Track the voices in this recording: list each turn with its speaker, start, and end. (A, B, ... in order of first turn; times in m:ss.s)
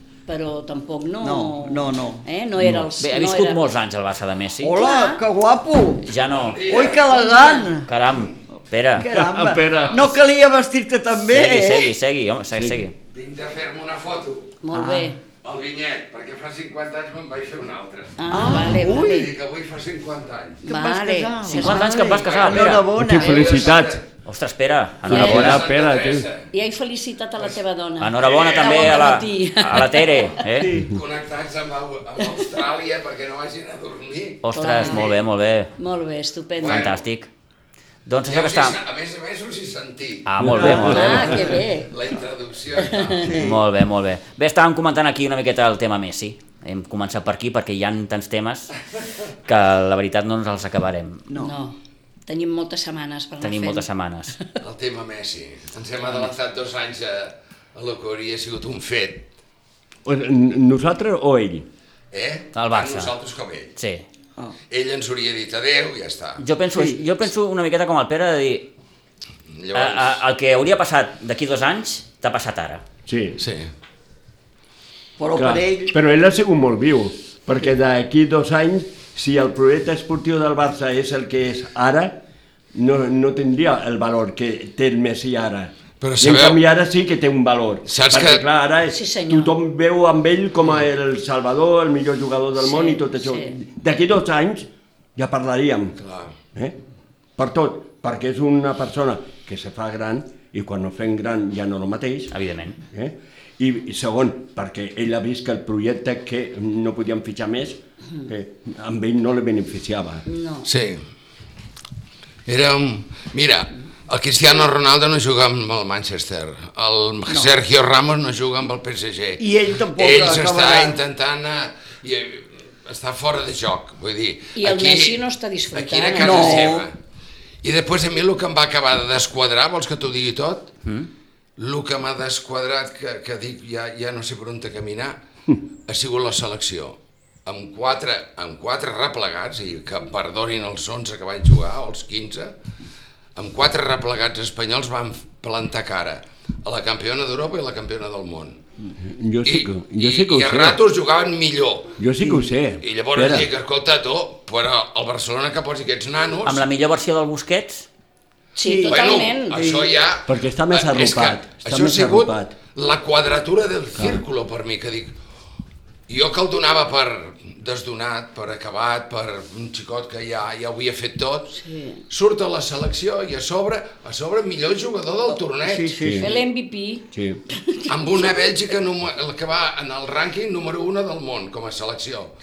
0:00.3-0:03.6 A
0:01.2-0:02.2 B
0:02.6-0:02.9 C
0:03.0-0:04.8 D
0:04.6-0:06.1 B
0:04.8-0:05.2 A
0:06.1-0:06.7 D
0:06.4-0:07.0 E
0:06.6-0:07.9 B
0:07.0-0:07.8 A
0:07.8-0:09.1 D
0:09.0-0:11.9 B
0:09.1-0:10.1 C
0:09.7-0:10.1 E
0:11.1-0:12.9 D
0:12.5-0:12.8 C
0:13.1-0:14.6 E
0:14.6-0:15.2 A
0:14.7-0:15.1 B
0:15.4-0:20.6 E
0:18.2-0:19.3 A
0:18.3-0:19.2 B
0:20.6-0:23.6 B
0:20.6-0:22.1 A
0:21.5-0:22.9 D
0:22.1-0:24.0 E
0:22.9-0:24.0 C
0:24.2-0:25.6 D
0:25.0-0:26.3 C
0:25.1-0:25.6 A
0:25.3-0:26.5 E
0:26.5-0:30.4 A
0:28.0-0:30.7 D
0:28.2-0:29.1 E
0:30.6-0:31.0 B
0:30.7-0:34.4 E
0:34.4-0:35.7 D
0:34.5-0:35.2 A
0:35.8-0:36.9 A
0:36.6-0:37.0 E
0:36.6-0:37.3 D
0:38.0-0:38.8 D
0:38.3-0:40.3 E
0:40.2-0:41.5 D
0:40.4-0:41.1 C
0:40.6-0:41.9 A
0:41.1-0:43.4 E
0:42.9-0:43.3 A
0:43.2-0:43.6 B
0:43.3-0:48.7 D
0:49.4-0:51.3 D
0:51.3-0:51.5 B
0:51.3-0:54.5 A
0:53.4-0:54.4 D
0:54.6-0:59.3 E
1:00.0-1:01.7 C
1:02.1-1:03.8 E
1:02.5-1:03.1 D
1:03.8-1:04.0 D
1:04.7-1:06.4 E
1:06.4-1:08.7 D
1:09.5-1:10.2 E
1:09.7-1:12.8 D
1:13.1-1:13.4 C
1:13.4-1:13.7 E
1:15.2-1:15.9 B
1:15.3-1:22.2 C
1:22.7-1:36.0 C
1:26.0-1:26.6 E
1:27.9-1:28.4 E
1:28.9-1:29.6 A
1:32.6-1:33.6 A
1:36.0-1:36.4 E
1:37.4-1:42.3 C
1:42.3-1:42.8 D
1:42.9-1:50.2 C
1:50.2-1:50.7 A
1:50.6-1:51.0 E
1:52.4-2:05.2 E
1:59.4-2:01.0 B
2:04.6-2:06.8 A
2:05.7-2:07.0 E
2:06.2-2:06.8 B
2:07.6-2:10.7 E
2:11.6-2:15.2 E
2:15.9-2:22.6 E
2:23.4-2:28.6 E
2:29.0-2:30.8 C
2:29.4-2:32.0 E
2:32.0-2:33.5 C
2:32.2-2:32.5 B
2:32.8-2:36.6 E
2:36.4-2:37.9 D
2:38.6-2:39.6 A
2:38.6-2:40.0 B
2:38.9-2:45.1 E
2:40.2-2:42.5 C
2:43.9-2:44.2 C
2:46.1-2:56.0 E
2:51.5-2:52.0 A
2:55.6-2:56.3 B
2:56.0-2:56.4 C
2:56.2-2:58.8 A
2:57.1-2:57.4 C
2:57.9-3:02.3 E